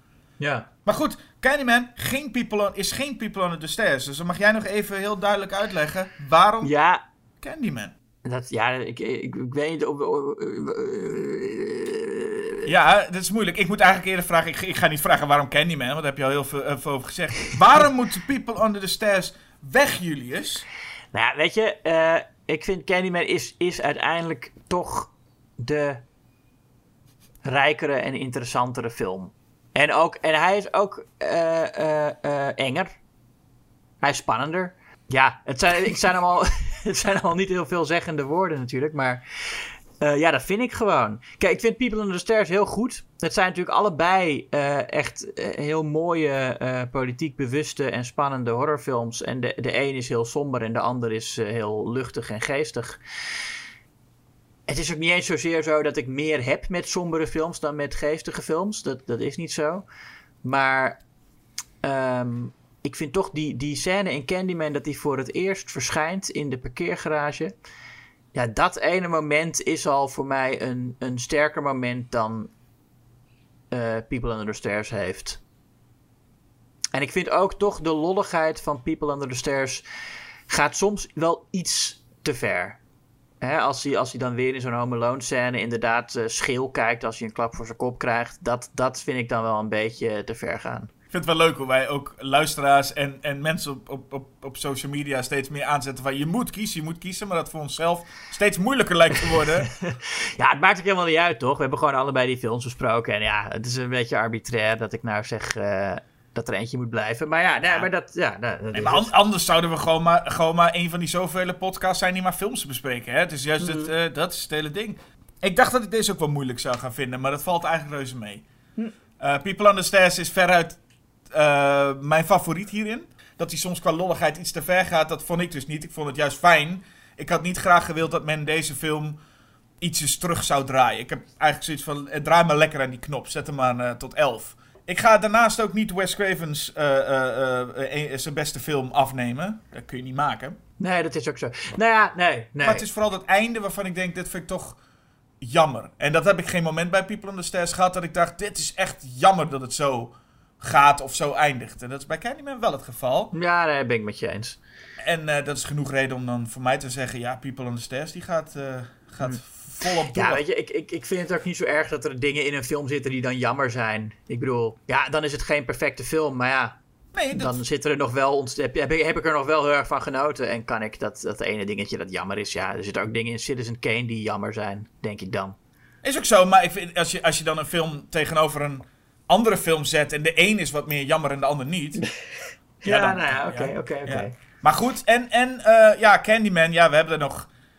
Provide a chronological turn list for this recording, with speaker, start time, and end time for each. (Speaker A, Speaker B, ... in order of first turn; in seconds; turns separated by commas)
Speaker A: 0.4-0.7, Speaker B: 0.9-6.7, Speaker A: 6.6-7.0, Speaker B: 7.4-7.9, Speaker A: 8.2-12.7, Speaker B: 12.7-20.7, Speaker A: 21.1-26.0, Speaker A: 27.4-32.9, Speaker A: 34.0-53.0, Speaker A: 54.7-59.9, Speaker A: 60.4-61.0, Speaker A: 61.8-67.5, Speaker A: 68.3-72.5, Speaker A: 73.7-75.4, Speaker A: 76.9-79.8, Speaker A: 80.5-82.8, Speaker A: 83.4-90.9, Speaker B: 91.1-99.7, Speaker A: 99.6-109.1, Speaker B: 108.7-118.4, Speaker A: 113.6-113.9, Speaker B: 119.2-120.8, Speaker B: 121.3-129.2, Speaker B: 129.8-140.6, Speaker A: 140.8-142.8, Speaker B: 142.6-144.8, Speaker B: 145.4-153.3, Speaker A: 153.3-154.6, Speaker B: 155.0-160.4, Speaker A: 160.1-166.8, Speaker B: 167.1-167.6, Speaker A: 167.3-175.6, Speaker B: 176.0-182.0, Speaker A: 182.8-184.3, Speaker B: 182.9-187.5